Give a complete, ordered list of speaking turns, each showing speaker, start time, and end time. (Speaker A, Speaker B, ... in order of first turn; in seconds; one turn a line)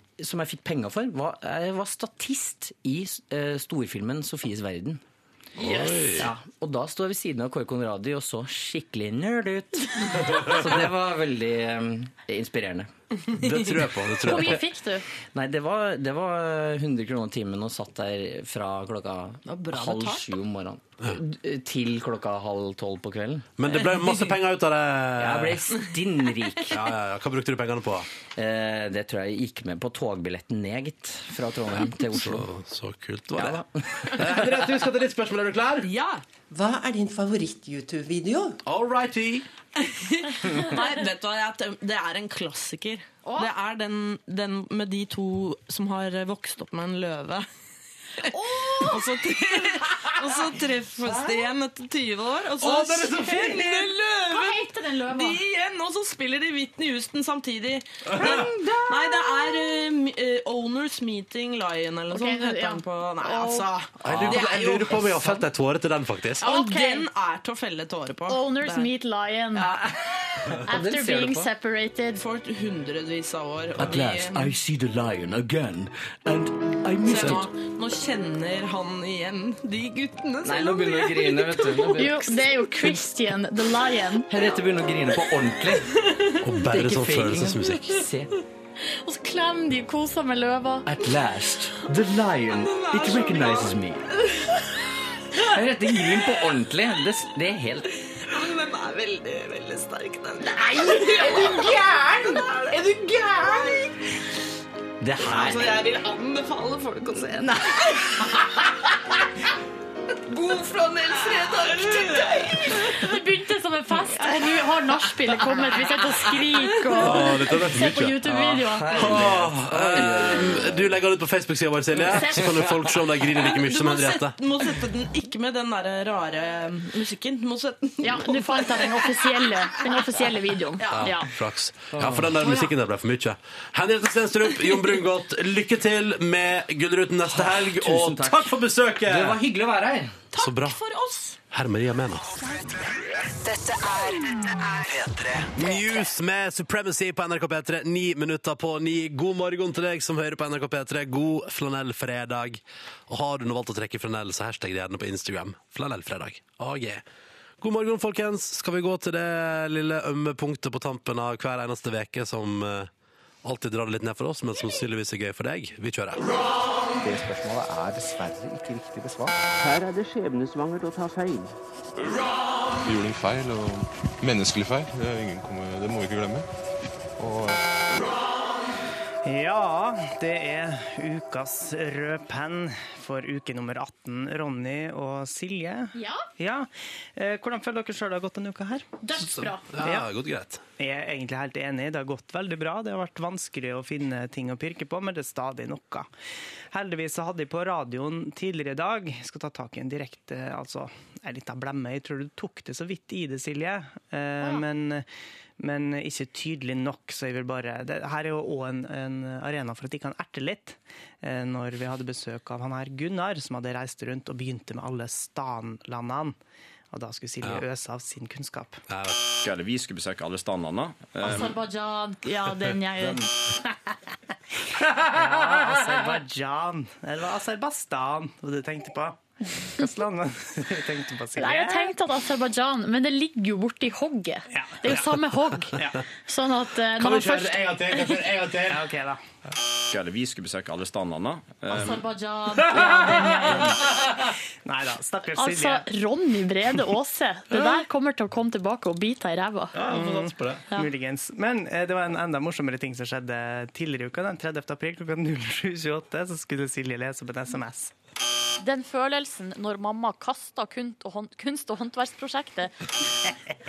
Speaker A: 0.2-5.0
Speaker B: 5.6-6.3
Speaker C: 5.6-6.2
Speaker A: 6.1-12.9
Speaker B: 13.3-14.6
Speaker C: 14.2-15.1
Speaker A: 15.3-23.5
Speaker D: 19.4-20.3
Speaker B: 23.6-25.8
Speaker A: 25.2-26.8
Speaker D: 25.8-26.4
Speaker B: 26.7-28.1
Speaker A: 28.4-32.5
Speaker B: 31.7-35.9
Speaker A: 33.3-34.6
Speaker D: 35.8-36.2
Speaker E: 36.5-38.6
Speaker B: 38.6-39.5
Speaker D: 39.8-47.5
Speaker D: 48.3-65.4
Speaker C: 48.3-49.0
Speaker B: 52.6-54.0
Speaker C: 54.3-55.4
Speaker B: 58.1-58.5
Speaker C: 62.1-63.7
Speaker B: 64.0-66.5
Speaker A: 64.1-64.4
Speaker C: 66.4-67.1
Speaker D: 66.4-68.9
Speaker C: 68.3-69.7
Speaker D: 69.6-69.9
Speaker A: 70.5-71.5
Speaker C: 70.7-72.2
Speaker D: 72.2-74.5
Speaker A: 73.8-77.4
Speaker D: 77.0-82.2
Speaker B: 77.1-77.5
Speaker A: 80.4-82.4
Speaker C: 81.9-84.3
Speaker A: 84.3-85.9
Speaker B: 86.4-88.0
Speaker A: 86.6-88.3
Speaker C: 88.9-90.9
Speaker A: 90.9-94.0
Speaker D: 92.5-94.6
Speaker A: 95.4-97.8
Speaker D: 98.2-103.9
Speaker A: 105.0-105.8
Speaker D: 105.2-107.3
Speaker D: 110.3-113.0
Speaker C: 112.8-119.2
Speaker B: 116.9-118.3
Speaker A: 118.2-120.9
Speaker B: 118.9-124.4
Speaker C: 122.0-122.6
Speaker A: 122.5-123.0
Speaker D: 123.4-129.3
Speaker C: 128.0-131.3
Speaker B: 130.9-139.4
Speaker A: 131.9-132.5
Speaker A: 137.2-140.2
Speaker D: 140.3-141.4
Speaker B: 140.4-140.8
Speaker B: 141.5-142.3
Speaker F: 142.7-145.8
Speaker B: 145.5-157.0
Speaker B: 157.6-162.9
Speaker B: 163.4-166.3
Speaker G: 167.0-169.4
Speaker H: 169.6-171.5
Speaker I: 172.8-176.5
Speaker I: 177.2-177.7
Speaker J: 179.2-188.9
Speaker C: 185.9-186.3
Speaker C: 189.0-189.7
Speaker B: 189.1-190.6
Speaker J: 189.8-190.1
Speaker J: 190.8-196.1
Speaker J: 196.7-205.1
Speaker J: 205.6-216.4
Speaker J: 216.9-218.8
Speaker B: 218.9-219.3
Speaker K: 219.4-221.6
Speaker C: 221.2-223.3
Speaker J: 224.9-231.9
Speaker C: 231.4-238.1
Speaker J: 234.5-235.1
Speaker J: 235.7-236.0
Speaker B: 237.0-238.9
Speaker J: 238.7-239.3
Speaker K: 239.9-242.1
Speaker C: 241.7-243.8
Speaker J: 243.2-243.8
Speaker J: 244.7-245.9
Speaker C: 245.3-249.8
Speaker B: 249.8-250.6
Speaker J: 249.8-257.9
Speaker C: 258.6-262.7